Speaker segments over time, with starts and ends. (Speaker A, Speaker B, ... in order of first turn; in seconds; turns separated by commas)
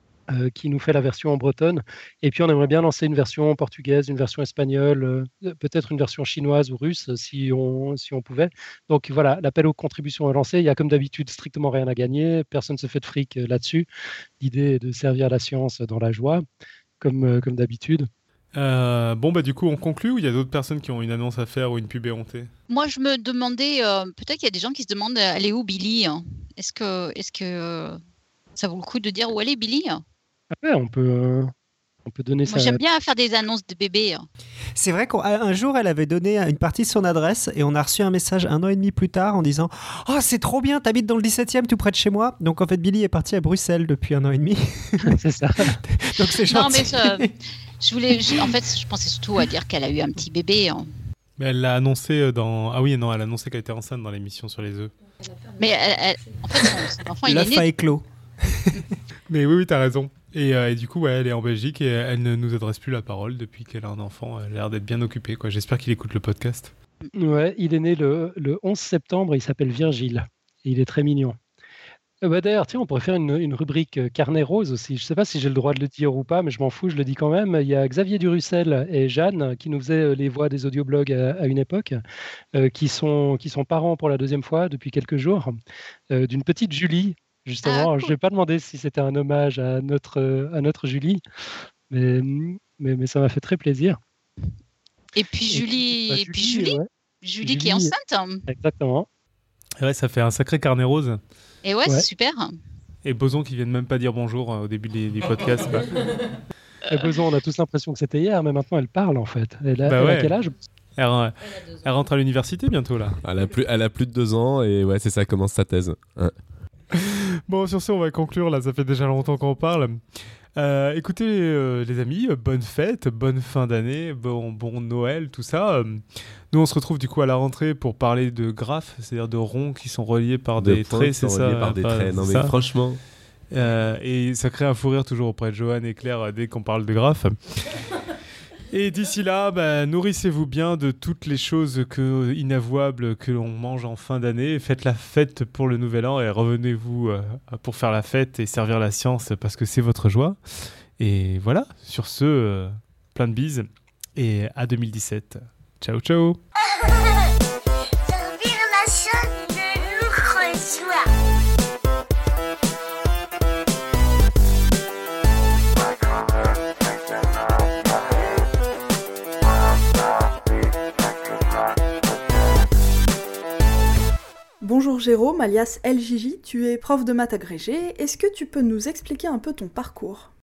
Speaker A: 0.3-13.9, Speaker A: 14.4-16.4, Speaker A: 17.0-18.1, Speaker B: 18.6-22.5, Speaker C: 22.7-28.0, Speaker C: 28.6-30.0, Speaker A: 30.5-31.5, Speaker A: 32.1-32.8, Speaker C: 32.5-34.3, Speaker D: 34.8-45.2, Speaker A: 45.1-45.8, Speaker D: 45.9-47.3, Speaker C: 46.5-50.9, Speaker B: 51.4-54.9, Speaker C: 55.6-57.7, Speaker D: 57.2-58.7, Speaker B: 59.3-66.7, Speaker A: 67.2-71.4, Speaker A: 72.2-82.0, Speaker A: 82.5-85.6, Speaker A: 86.1-91.2, Speaker C: 87.6-88.2, Speaker A: 91.9-94.0, Speaker C: 95.2-98.5, Speaker A: 95.5-96.9, Speaker A: 97.4-97.9, Speaker A: 98.5-99.1, Speaker B: 99.8-101.2, Speaker C: 101.7-102.6, Speaker B: 103.0-105.9, Speaker A: 106.9-110.5, Speaker C: 106.9-107.2, Speaker B: 109.8-110.3, Speaker B: 111.0-113.2, Speaker E: 113.2-116.3, Speaker B: 116.9-120.0, Speaker B: 120.6-132.5, Speaker E: 130.6-133.0, Speaker B: 133.5-137.4, Speaker B: 138.7-150.4, Speaker B: 151.0-156.4, Speaker F: 174.6-180.3